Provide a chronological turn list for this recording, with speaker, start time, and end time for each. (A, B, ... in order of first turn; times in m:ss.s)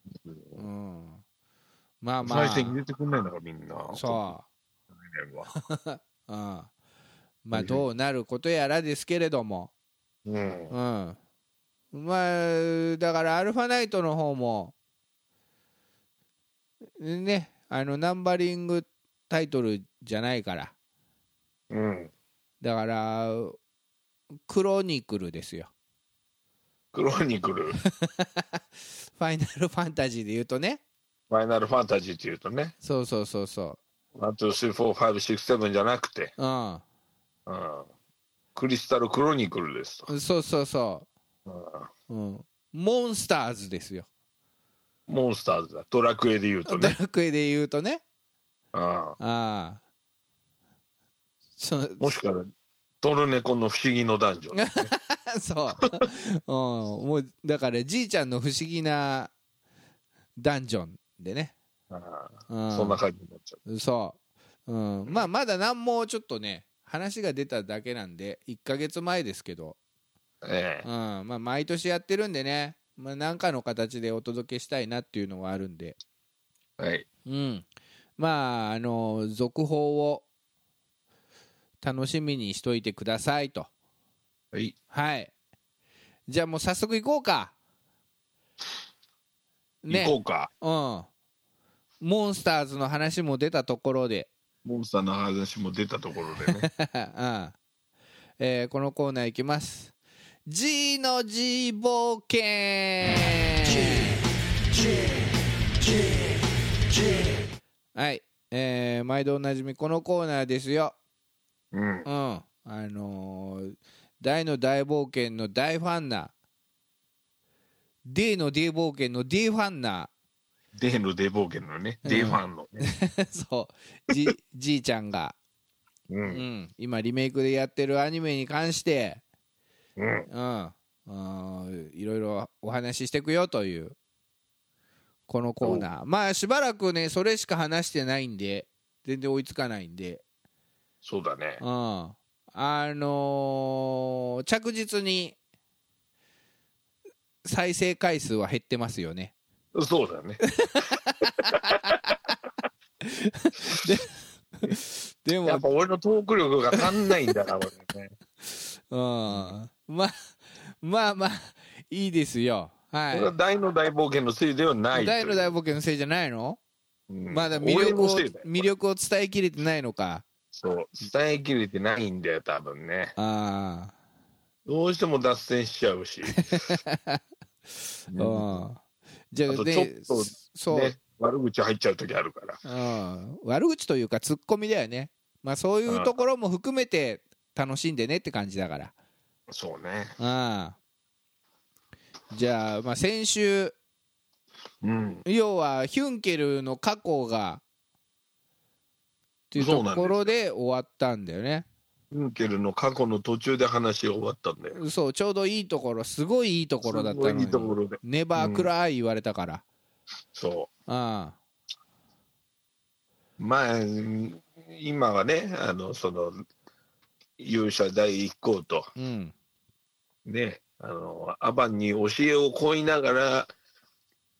0:00.2-0:00.6 A
0:00.6-0:01.2 B
0:02.0-0:02.8 B
0:02.2-0:04.3 A
0:03.9-0:04.5 B
0:04.9-0:05.5 A
0:05.5-0:06.7 B
0:07.4-0:09.7 B
0:07.5-0:07.8 A
0:10.2-0:10.7 A
0:10.7-0:11.2 B
0:11.9-0:14.8 B
0:17.0-0:20.7 B
0:21.7-0:22.1 A
0:22.6-0:23.6 B
0:24.5-0:25.7 B
0:26.9-0:27.8 A
0:27.8-0:28.6 B
0:29.2-0:30.8 B
0:31.3-0:32.7 A
0:32.8-0:33.8 B
0:34.2-0:36.3 A
0:36.4-0:36.8 B
0:37.5-0:37.9 A
0:38.6-0:40.1 A
0:40.1-0:41.1 B
0:41.5-0:41.9 A
0:42.1-0:44.1 B
0:45.1-0:47.0 A
0:46.7-0:48.0 B
0:48.7-0:49.2 A
0:49.2-0:49.8 B
0:51.6-0:52.2 B
0:52.0-0:52.5 A
0:53.0-0:54.9 A
0:54.5-0:59.3 B
1:00.4-1:01.5 B
1:01.9-1:03.6 A
1:02.5-1:03.0 B
1:03.7-1:09.8 B
1:10.4-1:10.9 A
1:10.8-1:16.0 B
1:16.8-1:17.1 A
1:17.3-1:17.6 B
1:18.2-1:20.3 B
1:21.8-1:23.7 B
1:24.9-1:25.3 B
1:26.3-1:27.5 B
1:29.8-1:31.1 B
1:29.9-1:30.5 A
1:32.0-1:34.3 B
1:34.6-1:36.7 A
1:36.4-1:37.6 B
1:38.4-1:39.9 B
1:40.5-1:44.2 B
1:48.0-1:51.0 B
1:51.7-1:52.1 A
1:52.0-1:56.3 B
1:58.1-2:00.1 B
2:00.7-2:02.9 A
2:02.0-2:05.4 B
2:06.1-2:06.4 A
2:06.3-2:09.2 B
2:10.0-2:10.3 A
2:10.3-2:14.0 B
2:15.3-2:20.2 B
2:21.0-2:21.6 A
2:21.6-2:25.4 B
2:27.4-2:29.3 B
2:29.8-2:30.4 A
2:30.4-2:32.2 B
2:31.4-2:32.2 A
2:33.0-2:35.6 B
2:35.4-2:38.2 A
2:36.8-2:37.2 B
2:38.5-2:40.1 B
2:40.7-2:43.3 B
2:43.1-2:45.5 A
2:44.9-2:46.6 B
2:47.1-2:48.7 A
2:47.3-2:50.2 B
2:50.5-2:53.2 A
2:53.2-2:53.9 B
2:54.7-2:56.5 A
2:56.3-2:57.2 B
2:58.1-2:58.6 A
2:58.1-2:58.8 B
2:59.3-3:01.0 B
2:59.5-3:02.6 A
3:02.6-3:08.9 B
3:05.9-3:06.2 A
3:09.5-3:10.2 A
3:10.2-3:10.8 B
3:12.3-3:13.8 B
3:14.8-3:15.2 A
3:15.2-3:17.6 B
3:19.5-3:21.7 B
3:19.6-3:20.3 A
3:22.1-3:24.8 A
3:24.7-3:29.6 B
3:26.8-3:28.7 A
3:30.3-3:30.7 A
3:30.9-3:31.4 B
3:33.4-3:36.4 A
3:37.4-3:38.9 A
3:39.0-3:39.3 B
3:40.2-3:43.5 A